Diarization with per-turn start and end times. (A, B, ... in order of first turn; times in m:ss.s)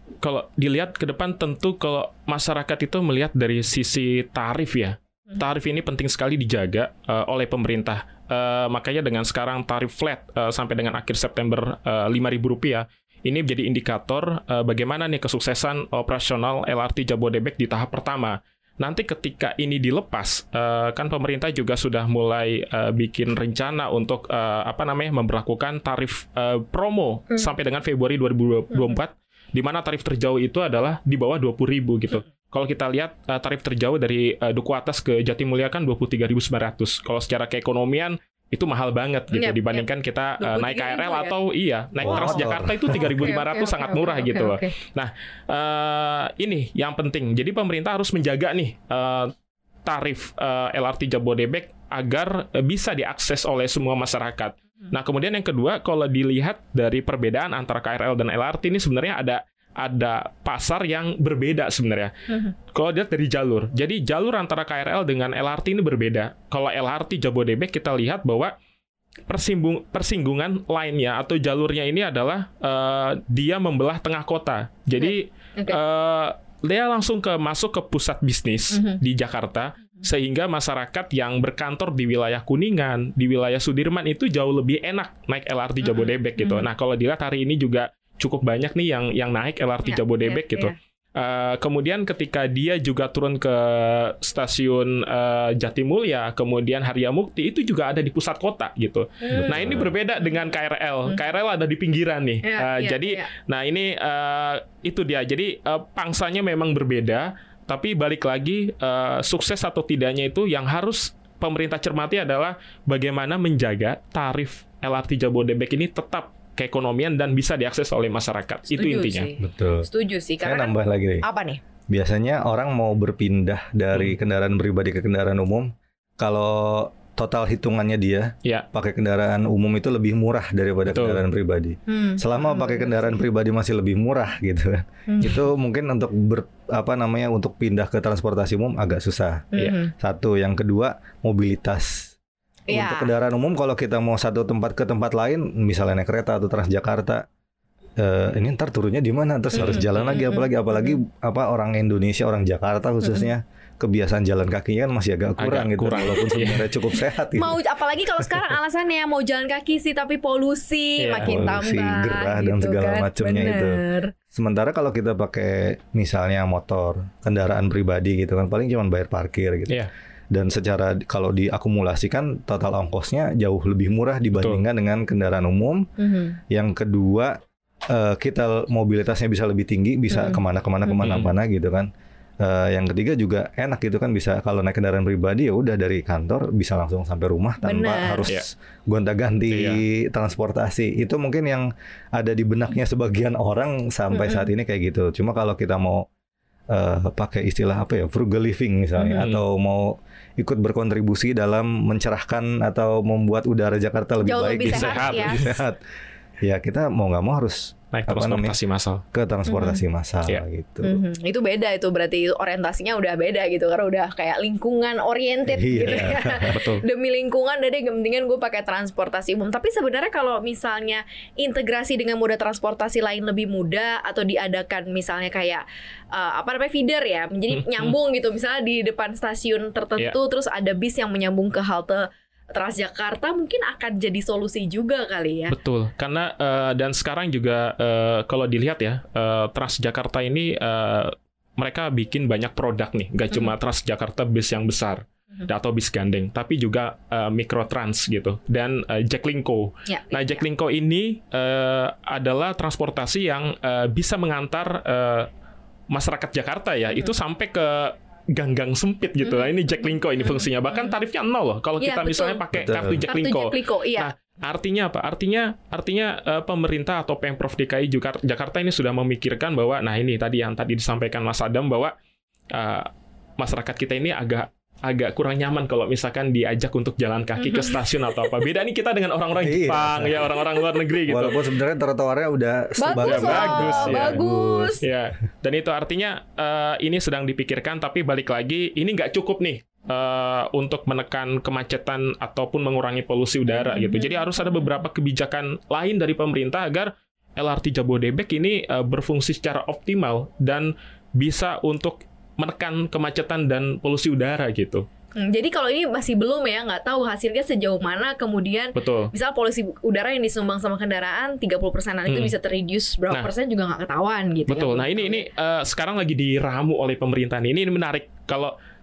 0:00.2-0:49.3 A
0:28.7-0:29.0 B
0:39.3-0:39.9 B
0:40.4-0:41.3 B
0:42.0-0:43.1 C
0:42.0-0:44.7 B
0:49.8-1:02.1 A
1:02.7-1:08.5 A
1:09.3-1:59.3 A
1:15.0-1:15.8 B
1:18.7-1:19.0 B
1:25.8-1:26.6 B
1:29.8-1:30.7 B
1:39.2-1:40.5 B
1:39.3-1:39.9 C
1:42.4-1:43.3 B
1:58.7-2:01.6 B
1:59.4-1:59.9 C
2:00.4-2:01.2 C
2:01.9-2:22.1 C
2:10.9-2:11.2 A
2:11.9-2:13.2 B
2:15.1-2:15.5 B
2:19.5-2:19.9 B
2:22.7-2:23.1 B
2:22.7-2:27.2 C
2:28.0-2:37.6 C
2:29.5-2:31.0 B
2:29.6-2:30.2 A
2:33.0-2:33.3 B
2:35.4-2:36.6 A
2:37.3-2:44.1 B
2:41.0-2:41.4 A
2:41.2-2:43.8 C
2:44.3-2:49.8 C
2:50.3-2:55.9 C
2:56.0-2:56.4 B
2:56.5-2:57.4 C
2:57.9-3:01.9 C
3:00.1-3:01.1 B
3:01.0-3:01.3 A
3:02.4-3:16.1 C
3:07.6-3:08.3 B
3:09.5-3:09.8 A
3:14.1-3:14.5 B
3:16.7-3:25.8 C
3:19.0-3:19.2 B
3:24.2-3:25.5 B
3:24.6-3:25.4 A
3:26.4-3:28.6 C
3:27.9-3:29.0 A
3:29.1-3:31.0 C
3:29.5-3:29.8 B
3:30.8-3:55.5 B
3:35.5-3:36.6 C
3:36.5-3:36.8 A
3:47.5-3:47.9 A
3:55.5-4:15.3 A
4:09.9-4:10.4 B
4:15.9-4:31.9 A
4:19.2-4:20.9 B
4:21.8-4:24.1 B
4:22.5-4:23.0 C
4:32.5-4:41.4 A
4:37.4-4:38.3 B
4:39.4-4:40.3 C
4:41.1-4:44.8 C
4:42.8-4:44.8 B
4:43.0-4:44.2 A
4:44.8-5:04.8 A
4:53.5-4:54.7 B
5:05.2-5:15.2 B
5:08.7-5:09.1 A
5:12.1-5:12.3 A
5:14.5-5:18.5 A